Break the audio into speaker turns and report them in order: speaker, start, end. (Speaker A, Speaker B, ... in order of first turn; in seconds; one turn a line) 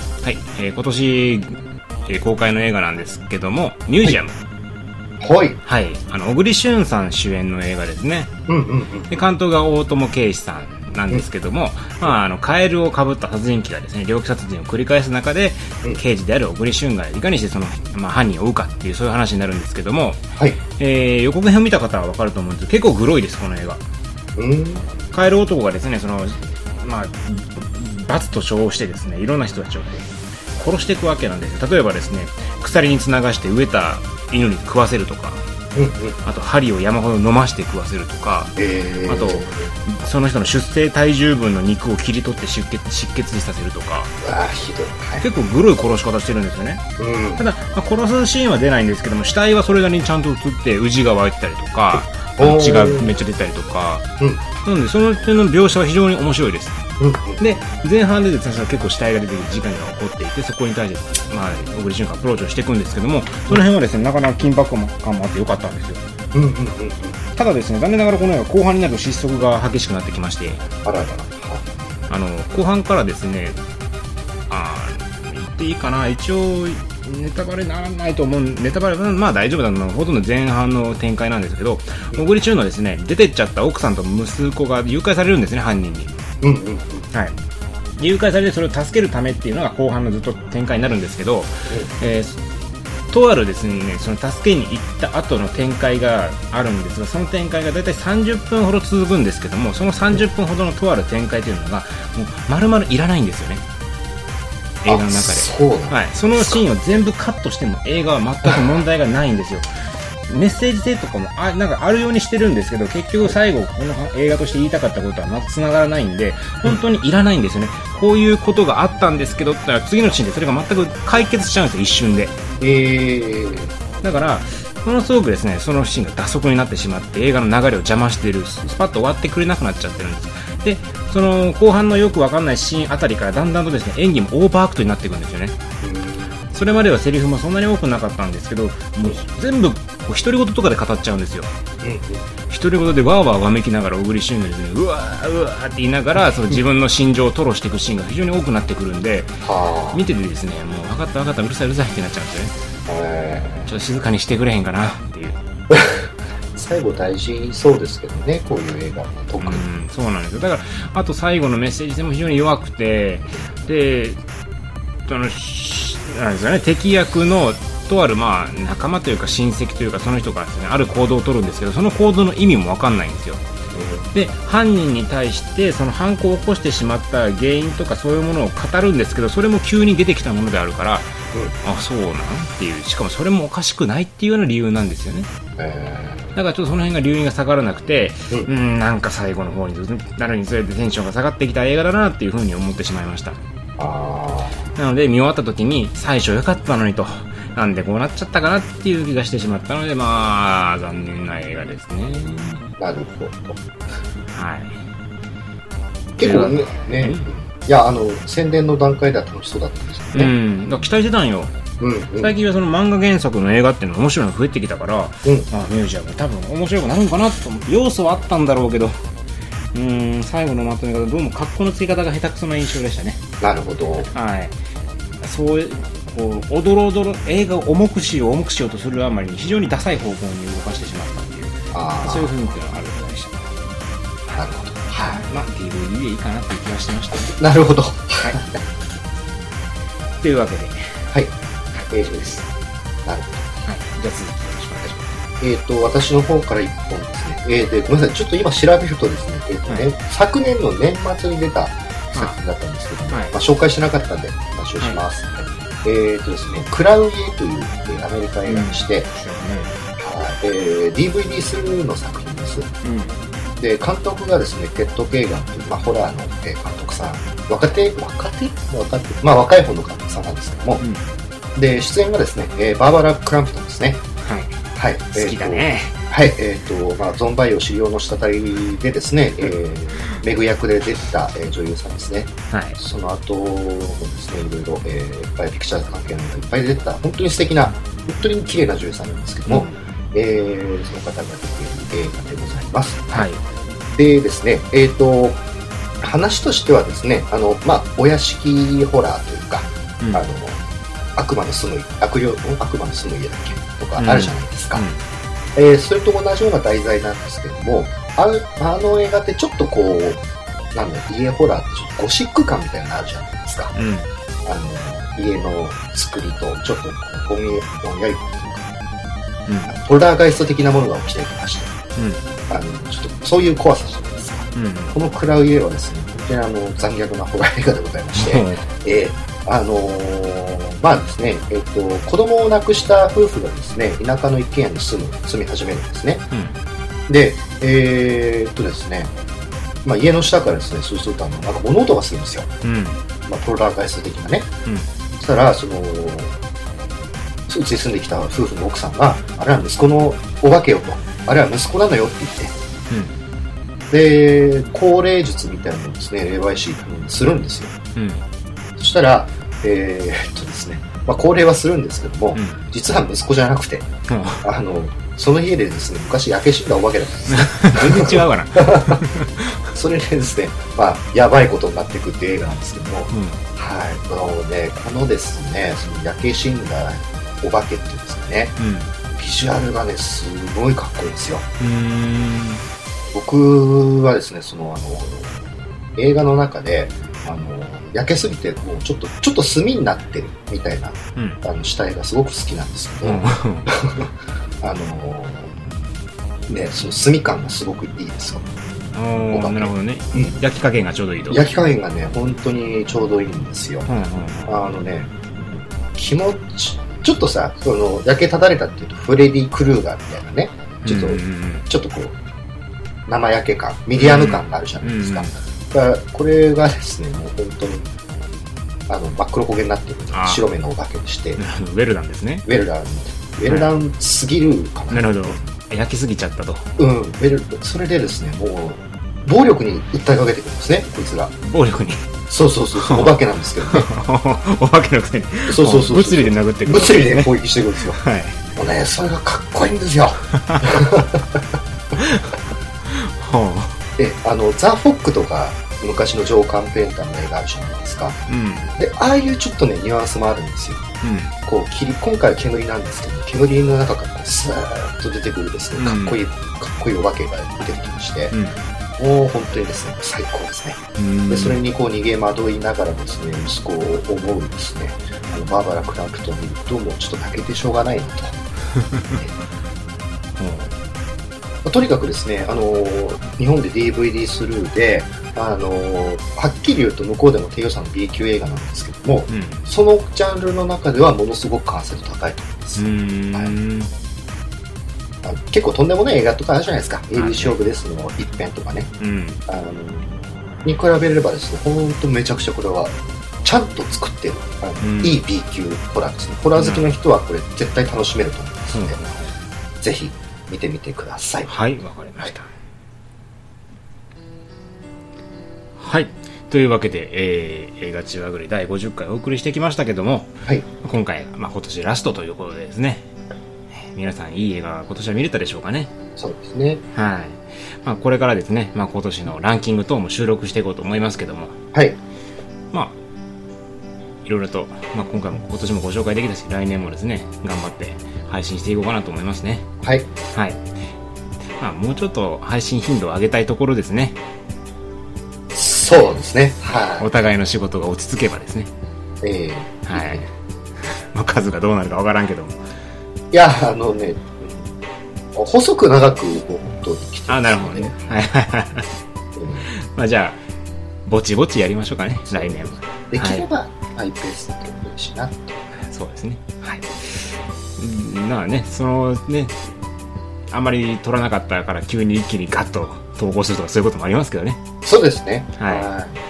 Speaker A: 0.2-4.4
Speaker B: 5.2-5.6
Speaker A: 5.7-8.3
Speaker B: 8.5-9.2
Speaker A: 9.1-23.8
Speaker B: 24.4-24.9
Speaker A: 25.1-35.4
Speaker B: 35.8-36.2
Speaker A: 36.2-44.1
Speaker B: 38.6-39.7
Speaker B: 44.2-45.3
Speaker A: 45.2-46.8
Speaker B: 47.0-47.5
Speaker A: 47.4-54.1
Speaker B: 52.4-53.1
Speaker A: 54.6-56.8
Speaker B: 57.0-57.4
Speaker A: 57.4-66.0
Speaker B: 66.3-67.2
Speaker A: 67.4-70.6
Speaker B: 70.8-71.7
Speaker A: 72.1-73.6
Speaker A: 74.5-86.2
Speaker B: 86.4-87.1
Speaker A: 88.0-92.4
Speaker A: 93.1-103.6
Speaker A: 104.8-109.7
Speaker B: 104.9-106.6
Speaker A: 110.3-122.4
Speaker B: 122.6-123.8
Speaker A: 124.0-135.6
Speaker B: 135.8-136.4
Speaker A: 136.5-141.5
Speaker B: 141.8-142.3
Speaker A: 142.5-149.3
Speaker B: 149.4-150.0
Speaker A: 149.9-152.5
Speaker B: 152.9-153.7
Speaker A: 153.7-155.4
Speaker B: 155.7-159.7
Speaker A: 159.4-164.2
Speaker A: 165.1-173.4
Speaker B: 173.7-174.1
Speaker A: 174.1-185.3
Speaker B: 185.6-186.3
Speaker A: 186.3-193.4
Speaker B: 193.8-194.6
Speaker A: 194.8-202.7
Speaker B: 202.8-203.6
Speaker A: 204.3-204.8
Speaker A: 206.2-207.3
Speaker B: 206.2-210.3
Speaker A: 210.1-211.5
Speaker B: 211.8-212.3
Speaker A: 212.2-219.0
Speaker A: 219.7-223.2
Speaker B: 223.4-224.1
Speaker A: 224.0-224.6
Speaker A: 225.2-233.5
Speaker B: 231.7-232.3
Speaker B: 234.3-235.2
Speaker A: 234.9-237.4
Speaker B: 237.3-238.6
Speaker A: 238.2-238.5
Speaker A: 240.2-240.9
Speaker B: 241.9-242.5
Speaker B: 243.1-243.6
Speaker A: 243.7-245.1
Speaker B: 245.4-259.1
Speaker A: 253.1-253.4
Speaker A: 258.5-259.8
Speaker B: 260.0-262.7
Speaker A: 262.8-263.1
Speaker B: 263.6-270.8
Speaker A: 270.8-271.1
Speaker B: 271.6-274.0
Speaker A: 274.2-274.6
Speaker B: 274.8-293.3
Speaker A: 275.1-276.0
Speaker A: 282.5-282.8
Speaker A: 289.5-289.8
Speaker A: 293.1-293.4
Speaker B: 293.9-295.4
Speaker B: 296.0-300.6
Speaker A: 300.0-300.2
Speaker B: 301.2-304.9
Speaker A: 304.0-305.0
Speaker B: 305.6-310.2
Speaker B: 310.7-313.7
Speaker A: 313.7-314.1
Speaker B: 314.4-318.7
Speaker A: 319.5-319.8
Speaker B: 319.7-321.8
Speaker A: 322.0-322.2
Speaker B: 322.5-336.2
Speaker A: 324.6-325.0
Speaker A: 328.1-328.7
Speaker A: 336.3-336.6
Speaker B: 337.1-339.1
Speaker B: 339.9-342.5
Speaker A: 342.6-343.0
Speaker B: 343.3-344.5
Speaker B: 345.2-346.3
Speaker B: 347.5-352.5
Speaker A: 352.9-353.2
Speaker B: 353.9-357.7
Speaker A: 358.0-358.2
Speaker B: 358.8-363.9
Speaker A: 362.3-362.6
Speaker A: 364.1-364.5
Speaker B: 364.4-369.0
Speaker A: 367.3-369.6
Speaker B: 369.7-378.6
Speaker A: 373.1-373.4
Speaker A: 378.6-378.9
Speaker B: 379.1-381.4
Speaker A: 381.6-382.6
Speaker B: 383.1-394.1
Speaker A: 391.2-391.4
Speaker A: 393.0-393.7
Speaker B: 394.6-395.5
Speaker B: 396.5-398.5
Speaker A: 398.9-401.5
Speaker B: 399.3-400.4
Speaker B: 401.3-403.9
Speaker A: 403.9-404.6
Speaker B: 404.5-412.1
Speaker A: 410.8-411.7
Speaker B: 413.1-417.9
Speaker A: 414.0-415.3
Speaker B: 418.9-421.4
Speaker A: 420.1-420.5
Speaker A: 421.4-422.4
Speaker B: 422.5-425.4
Speaker A: 423.5-423.7
Speaker A: 424.9-426.7
Speaker B: 426.8-431.3
Speaker A: 431.4-432.1
Speaker B: 432.3-433.9
Speaker A: 432.8-438.4
Speaker B: 435.5-438.0
Speaker B: 438.6-441.3
Speaker A: 440.3-440.6
Speaker A: 441.9-442.4
Speaker A: 442.9-443.8
Speaker B: 444.0-448.2
Speaker A: 448.3-448.7
Speaker B: 448.8-450.9
Speaker A: 451.0-451.3
Speaker B: 451.5-458.4
Speaker A: 455.8-456.3
Speaker A: 458.3-458.6
Speaker B: 459.0-468.4
Speaker A: 461.0-461.6
Speaker B: 469.1-469.4
Speaker A: 470.4-470.8
Speaker B: 471.6-483.5
Speaker A: 479.3-479.6
Speaker A: 482.8-483.9
Speaker B: 485.2-488.9
Speaker A: 487.1-487.6
Speaker A: 489.0-489.4
Speaker B: 489.5-499.0
Speaker A: 494.8-495.2
Speaker A: 496.6-497.0
Speaker A: 498.7-499.3
Speaker B: 499.8-501.5
Speaker A: 501.5-502.5
Speaker A: 505.8-513.1
Speaker A: 513.8-515.9
Speaker B: 516.2-516.8
Speaker A: 516.9-521.6
Speaker A: 522.7-523.0
Speaker A: 524.2-529.7
Speaker B: 529.8-530.1
Speaker A: 530.3-530.6
Speaker A: 531.6-534.2
Speaker B: 535.5-537.2
Speaker A: 537.0-538.7
Speaker B: 539.2-540.3
Speaker A: 539.9-540.3
Speaker A: 540.8-542.6
Speaker B: 543.3-544.7
Speaker B: 545.4-548.0
Speaker A: 547.3-548.9
Speaker B: 549.4-549.7
Speaker A: 549.6-550.4
Speaker A: 551.1-553.5
Speaker B: 552.3-555.6
Speaker A: 555.9-559.6
Speaker A: 560.5-564.6
Speaker B: 564.8-566.2
Speaker A: 565.6-565.9